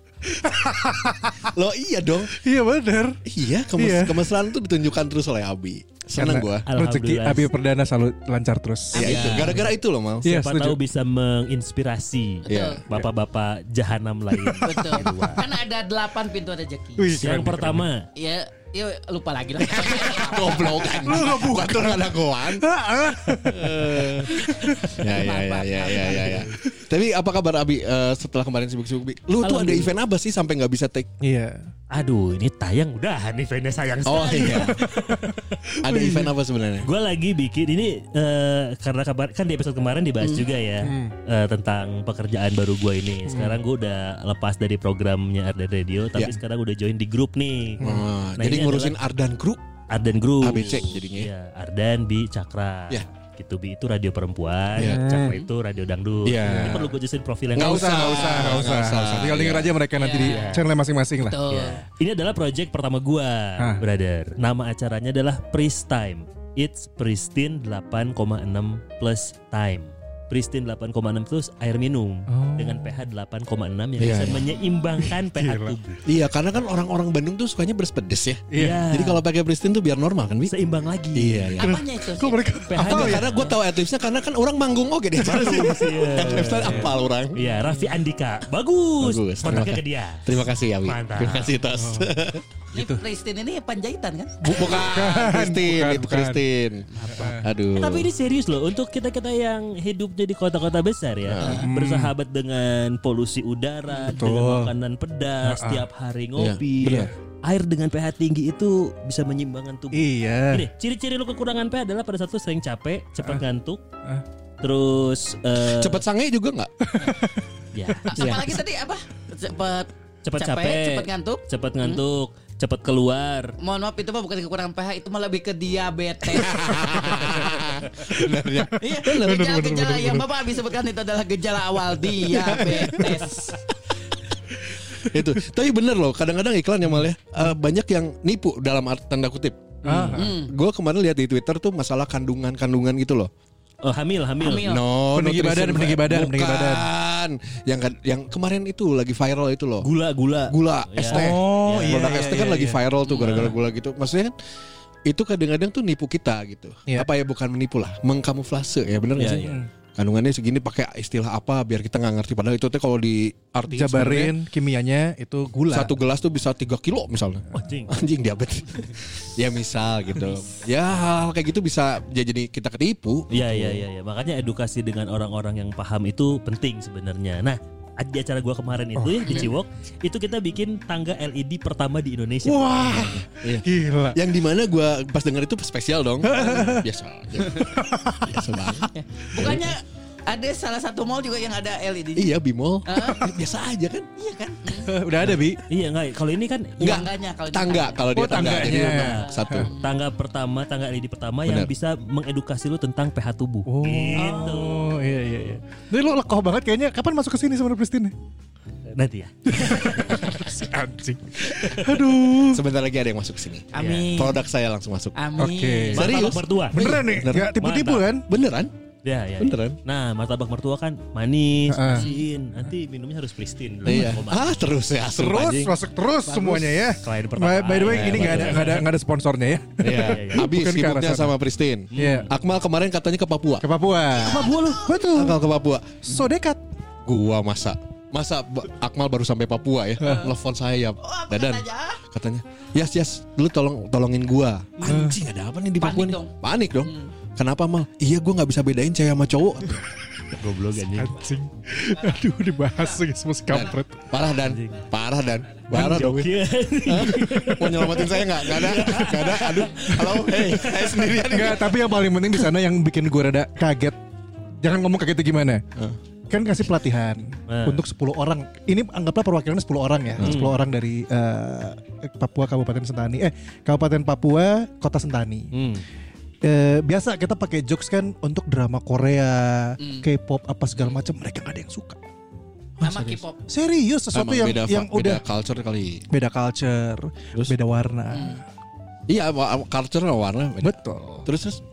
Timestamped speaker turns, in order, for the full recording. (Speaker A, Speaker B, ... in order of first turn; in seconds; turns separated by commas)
Speaker A: 0.3-1.5, Speaker B: 1.4-2.4, Speaker A: 2.2-3.2, Speaker B: 3.2-6.7, Speaker A: 3.8-4.3, Speaker A: 6.2-9.5, Speaker C: 6.7-7.5, Speaker D: 8.9-9.6, Speaker B: 8.9-10.2, Speaker A: 10.2-10.8, Speaker C: 10.2-15.4, Speaker B: 12.4-12.8, Speaker D: 12.5-12.8, Speaker A: 14.4-15.2, Speaker D: 14.6-17.2, Speaker A: 17.0-17.9, Speaker C: 17.2-18.0, Speaker D: 18.1-21.3, Speaker B: 19.6-22.6, Speaker A: 21.0-25.0, Speaker B: 23.4-24.3, Speaker D: 24.4-26.5, Speaker B: 24.9-31.1, Speaker A: 26.3-26.6, Speaker D: 29.4-29.9, Speaker A: 31.2-31.6, Speaker C: 31.9-35.6, Speaker B: 34.0-34.8, Speaker D: 34.1-34.6, Speaker A: 35.7-36.3, Speaker B: 35.8-36.9, Speaker C: 36.8-47.8, Speaker D: 40.2-40.5, Speaker A: 40.8-41.1, Speaker A: 43.2-43.6, Speaker A: 47.8-48.1, Speaker B: 47.8-49.6, Speaker C: 48.4-49.0, Speaker C: 49.9-58.4, Speaker B: 50.4-51.3, Speaker A: 54.8-55.4, Speaker B: 54.8-55.0, Speaker B: 56.2-56.9, Speaker A: 56.4-56.9, Speaker B: 57.5-59.7, Speaker A: 57.5-61.4, Speaker D: 59.9-60.5, Speaker C: 60.2-60.6, Speaker D: 61.2-61.8, Speaker C: 61.5-76.0, Speaker A: 63.6-63.8, Speaker A: 72.3-72.9, Speaker B: 74.0-74.4, Speaker A: 75.3-75.8, Speaker B: 76.0-80.5, Speaker A: 78.5-78.8, Speaker C: 78.5-79.2, Speaker C: 80.5-81.5, Speaker B: 81.1-81.8, Speaker D: 81.6-82.7, Speaker A: 81.6-83.2, Speaker C: 82.7-83.5, Speaker B: 82.8-87.4, Speaker C: 85.2-91.5, Speaker A: 85.3-87.0, Speaker B: 89.0-92.4, Speaker A: 91.7-93.0, Speaker D: 92.7-94.4, Speaker A: 94.4-96.4, Speaker B: 94.5-96.9, Speaker D: 96.9-97.4, Speaker A: 97.1-97.5, Speaker B: 97.4-98.1, Speaker C: 97.7-113.8, Speaker B: 101.3-101.6, Speaker A: 101.4-102.1, Speaker D: 103.9-104.2, Speaker A: 104.0-104.7, Speaker A: 105.4-105.8, Speaker B: 106.4-107.1, Speaker A: 109.9-110.7, Speaker C: 114.6-116.0, Speaker B: 115.6-116.7, Speaker A: 116.9-117.4, Speaker C: 117.7-118.1, Speaker D: 118.1-122.0, Speaker B: 118.2-118.5, Speaker C: 120.2-123.5, Speaker D: 123.6-127.2, Speaker B: 126.3-128.8, Speaker A: 128.4-130.3, Speaker D: 128.8-133.6, Speaker B: 132.4-133.1, Speaker A: 132.8-133.2, Speaker B: 134.9-143.3, Speaker A: 139.8-140.3, Speaker C: 139.8-140.1, Speaker D: 140.2-140.5, Speaker C: 143.8-144.7, Speaker D: 144.4-144.8, Speaker B: 144.5-149.9, Speaker A: 145.1-146.9, Speaker C: 149.8-152.2, Speaker B: 150.5-154.3, Speaker A: 151.1-152.8, Speaker D: 153.1-153.5, Speaker B: 155.1-164.3, Speaker C: 159.2-159.6, Speaker A: 159.2-159.7, Speaker A: 163.7-165.9, Speaker B: 165.7-173.8, Speaker C: 167.5-167.9, Speaker C: 173.3-183.1, Speaker A: 178.9-179.4, Speaker D: 179.2-179.5, Speaker A: 182.4-184.2, Speaker B: 182.9-187.7, Speaker A: 186.2-186.9, Speaker A: 187.4-188.7, Speaker B: 188.2-189.7, Speaker D: 188.9-192.3, Speaker B: 192.2-194.1, Speaker D: 192.9-193.3, Speaker D: 194.2-194.9, Speaker A: 194.8-195.6, Speaker C: 195.7-197.0, Speaker B: 196.8-199.7, Speaker D: 196.8-199.9, Speaker A: 198.1-199.7, Speaker C: 198.8-199.0, Speaker C: 199.7-204.8, Speaker A: 203.6-208.1, Speaker D: 204.2-204.8, Speaker C: 208.9-210.4, Speaker A: 209.4-212.6, Speaker C: 211.7-211.9, Speaker B: 212.3-215.2, Speaker D: 213.7-214.4, Speaker C: 213.7-214.1, Speaker D: 215.2-216.3, Speaker A: 215.4-216.1, Speaker B: 215.9-217.5, Speaker C: 215.9-218.1, Speaker A: 216.7-218.2, Speaker B: 218.3-218.7, Speaker C: 219.0-224.6, Speaker B: 219.4-219.8, Speaker A: 221.7-222.1, Speaker D: 221.9-222.2, Speaker B: 223.8-225.7, Speaker A: 225.1-231.3, Speaker D: 226.2-226.7, Speaker C: 227.0-228.8, Speaker B: 227.8-228.7, Speaker B: 229.8-233.7, Speaker C: 229.9-230.4, Speaker C: 231.9-232.3, Speaker A: 231.9-232.3, Speaker A: 233.6-235.4, Speaker D: 234.2-235.1, Speaker B: 235.1-236.1, Speaker A: 236.0-236.6, Speaker B: 237.0-249.8, Speaker D: 240.0-240.3, Speaker D: 241.0-242.0, Speaker A: 244.8-245.2, Speaker D: 245.8-247.1, Speaker C: 250.4-251.2, Speaker A: 250.9-254.1, Speaker B: 253.5-256.3, Speaker C: 254.4-254.8, Speaker C: 255.7-261.4, Speaker B: 256.9-261.9, Speaker A: 261.2-264.0, Speaker A: 264.6-265.6, Speaker A: 266.3-275.5, Speaker C: 267.5-267.8, Speaker C: 270.2-270.5, Speaker C: 275.5-275.8, Speaker A: 276.4-282.0, Speaker D: 279.8-280.1, Speaker A: 282.8-285.2, Speaker D: 282.8-283.4, Speaker B: 284.1-286.0, Speaker A: 286.1-288.4, Speaker D: 288.1-288.4, Speaker B: 289.1-291.6, Speaker A: 290.6-291.3